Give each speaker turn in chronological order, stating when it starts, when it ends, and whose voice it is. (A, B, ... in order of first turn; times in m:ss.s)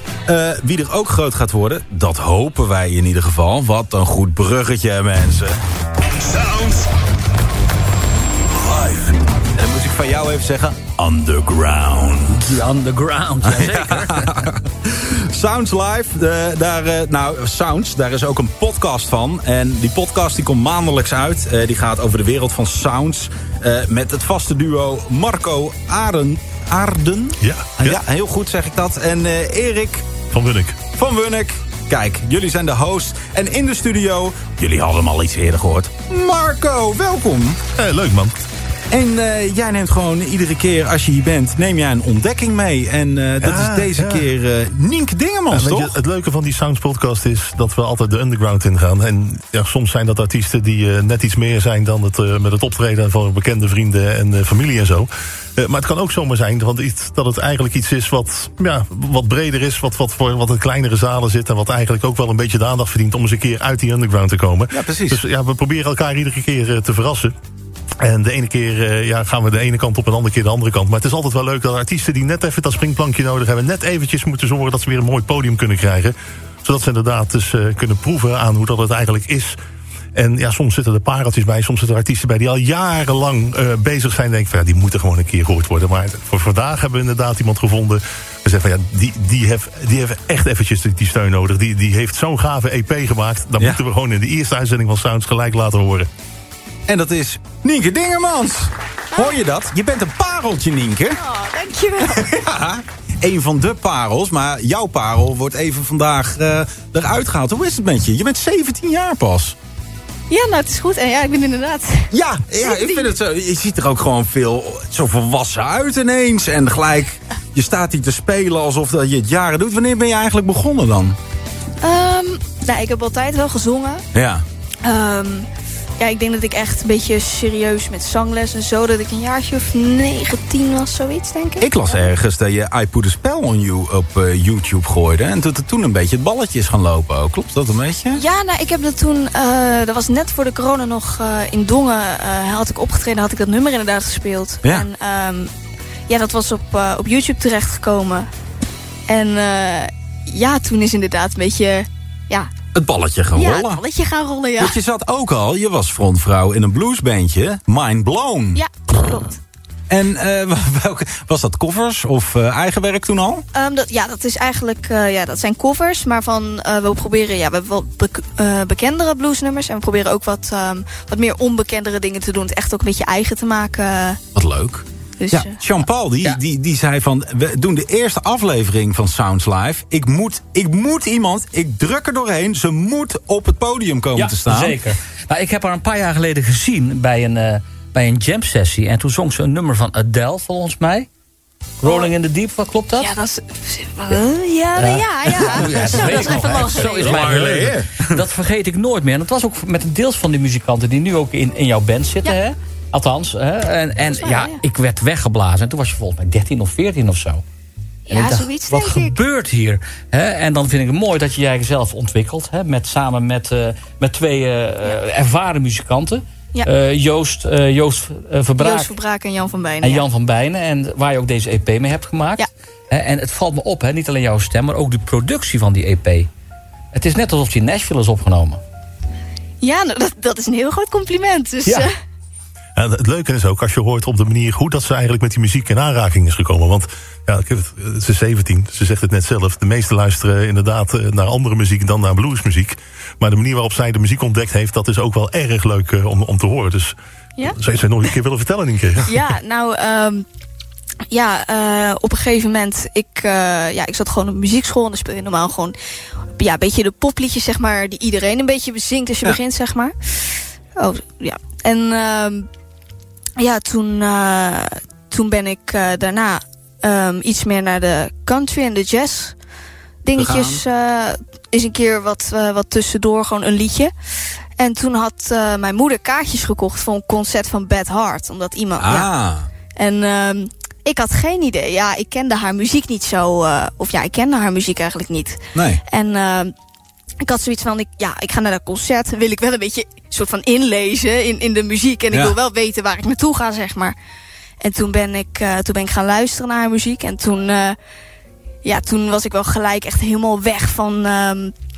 0:00.3-0:05.6 A
0:06.2-0:06.9 A
0:08.6-0:12.6 A
0:12.4-0:14.4 B
0:13.4-0:30.1 A
0:27.4-0:28.0 C
0:30.3-0:30.8 C
0:30.9-0:37.6 A
0:37.8-0:38.4 C
0:38.9-0:46.0 A
0:43.4-0:44.3 C
0:45.5-1:07.3 C
1:04.7-1:05.2 A
1:08.0-1:19.6 C
1:20.2-1:36.1 C
1:36.9-1:41.2 A
1:41.2-1:42.3 D
1:42.0-1:49.6 A
1:50.3-1:53.1 D
1:52.1-2:01.2 A
2:01.8-2:04.0 D
2:04.1-2:04.4 A
2:04.8-2:05.5 D
2:06.0-2:12.1 D
2:11.6-2:18.2 A
2:18.2-2:25.5 D
2:26.1-2:28.3 D
2:29.1-2:32.5 D
2:32.8-2:33.8 A
2:33.4-2:34.8 D
2:34.6-2:38.6 A
2:38.6-2:39.3 D
2:39.9-2:43.4 A
2:43.5-2:54.2 D
2:54.4-3:04.8 A
2:55.2-2:55.6 D
3:04.2-3:11.1 B
3:11.8-3:13.1 B
3:11.8-3:12.1 D
3:13.0-3:17.2 D
3:14.8-3:27.4 B
3:15.3-3:18.1 A
3:24.2-3:24.6 D
3:28.1-3:29.2 D
3:28.1-3:39.0 B
3:38.6-3:40.1 D
3:39.8-3:46.3 B
3:46.9-3:48.6 B
3:49.6-3:51.9 D
3:52.8-4:07.0 C
4:07.6-4:09.2 C
4:09.1-4:10.2 D
4:11.1-4:15.8 D
4:16.4-4:22.5 D
4:23.4-4:29.4 D
4:30.0-4:33.9 D
4:30.2-4:30.6 A
4:34.6-4:39.1 D
4:38.8-4:39.5 A
4:39.8-4:46.5 D
4:45.6-4:45.8 A
4:47.2-4:54.0 D
4:54.6-4:57.8 D
4:58.6-5:01.5 D